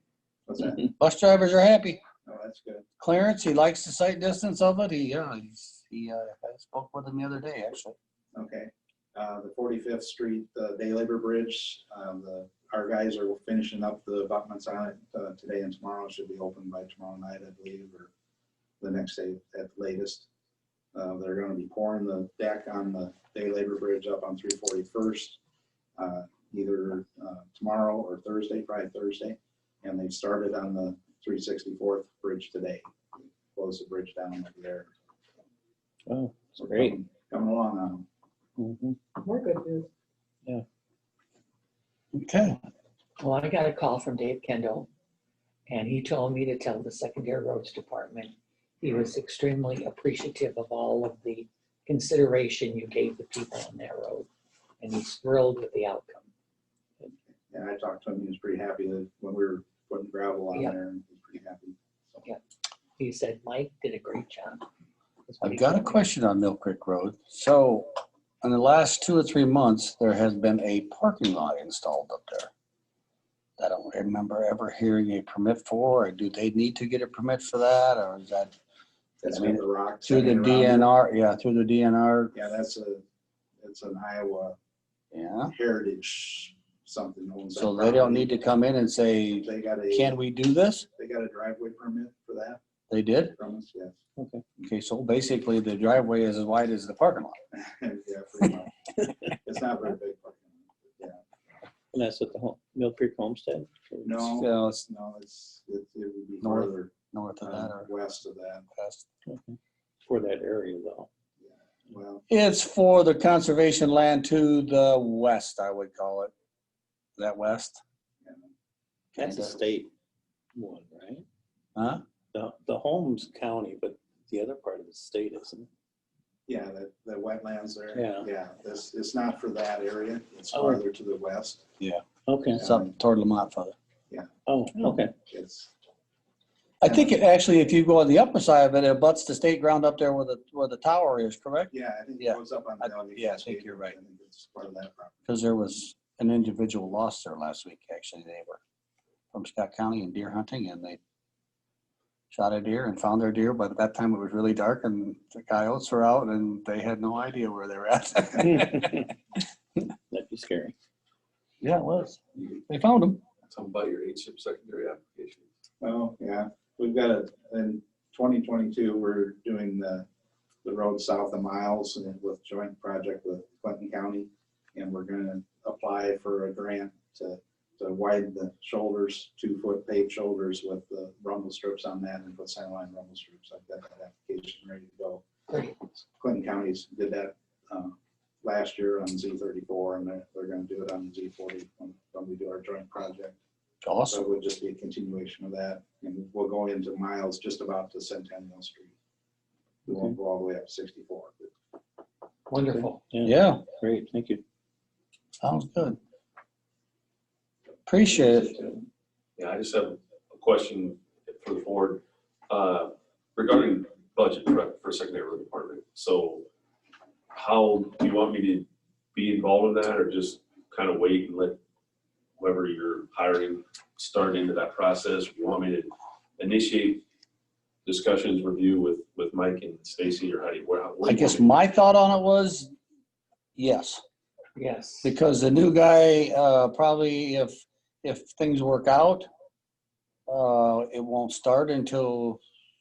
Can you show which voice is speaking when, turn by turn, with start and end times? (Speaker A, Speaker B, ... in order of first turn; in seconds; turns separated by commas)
Speaker A: 0.5-0.8, Speaker B: 0.9-2.0, Speaker A: 2.2-2.9, Speaker B: 3.0-8.0, Speaker A: 8.3-18.1, Speaker A: 18.8-20.3, Speaker A: 20.9-25.4, Speaker A: 26.0-34.9, Speaker C: 36.1-37.0, Speaker A: 36.6-38.0, Speaker C: 38.6-39.0, Speaker D: 39.2-39.9, Speaker B: 42.1-42.6, Speaker D: 43.2-44.9, Speaker D: 45.7-54.3, Speaker D: 54.8-56.3, Speaker A: 57.5-62.2, Speaker D: 63.0-64.7, Speaker D: 65.3-66.1, Speaker B: 65.4-67.9, Speaker B: 68.4-72.5, Speaker B: 73.6-78.5, Speaker A: 79.2-80.9, Speaker B: 79.3-82.3, Speaker A: 82.3-83.0, Speaker A: 83.6-84.6, Speaker B: 85.1-85.5, Speaker A: 85.5-88.3, Speaker B: 87.6-90.9, Speaker A: 89.4-90.2, Speaker A: 91.0-92.6, Speaker B: 92.9-93.3, Speaker A: 93.4-94.0, Speaker C: 94.2-94.4, Speaker B: 94.6-97.4, Speaker A: 97.5-98.7, Speaker A: 99.3-101.2, Speaker C: 101.9-104.2, Speaker A: 104.0-108.7, Speaker B: 104.3-104.8, Speaker B: 106.4-107.9, Speaker B: 108.8-109.1, Speaker C: 109.3-111.1, Speaker A: 111.4-112.2, Speaker B: 112.3-116.3, Speaker B: 117.2-117.8, Speaker A: 118.2-118.5, Speaker C: 119.2-119.9, Speaker B: 119.2-119.6, Speaker C: 120.5-121.2, Speaker B: 121.8-122.0, Speaker C: 122.3-125.7, Speaker A: 126.5-131.7, Speaker C: 127.9-128.3, Speaker C: 130.5-130.8, Speaker C: 132.3-132.7, Speaker A: 132.6-132.9, Speaker B: 132.6-133.8, Speaker C: 134.5-135.1, Speaker A: 135.2-135.7, Speaker B: 136.8-143.9, Speaker A: 136.8-137.2, Speaker A: 141.7-145.2, Speaker B: 145.3-148.6, Speaker B: 149.3-151.0, Speaker B: 152.3-159.1, Speaker C: 158.6-159.1, Speaker C: 160.1-160.7, Speaker B: 161.6-163.2, Speaker E: 163.5-165.4, Speaker A: 165.8-170.1, Speaker A: 170.6-185.2, Speaker D: 185.5-185.8, Speaker A: 186.2-193.4, Speaker B: 193.8-194.2, Speaker A: 194.1-198.9, Speaker A: 199.9-201.5, Speaker C: 199.9-200.2, Speaker D: 202.5-203.0, Speaker C: 202.7-204.4, Speaker B: 203.2-203.6, Speaker B: 205.4-206.0, Speaker B: 207.9-208.6, Speaker C: 208.4-208.8, Speaker E: 209.4-216.5, Speaker E: 217.3-221.6, Speaker E: 222.4-227.0, Speaker E: 227.8-231.5, Speaker B: 231.0-232.7, Speaker B: 233.6-234.0, Speaker D: 234.6-235.1, Speaker B: 235.0-239.3, Speaker B: 240.3-242.4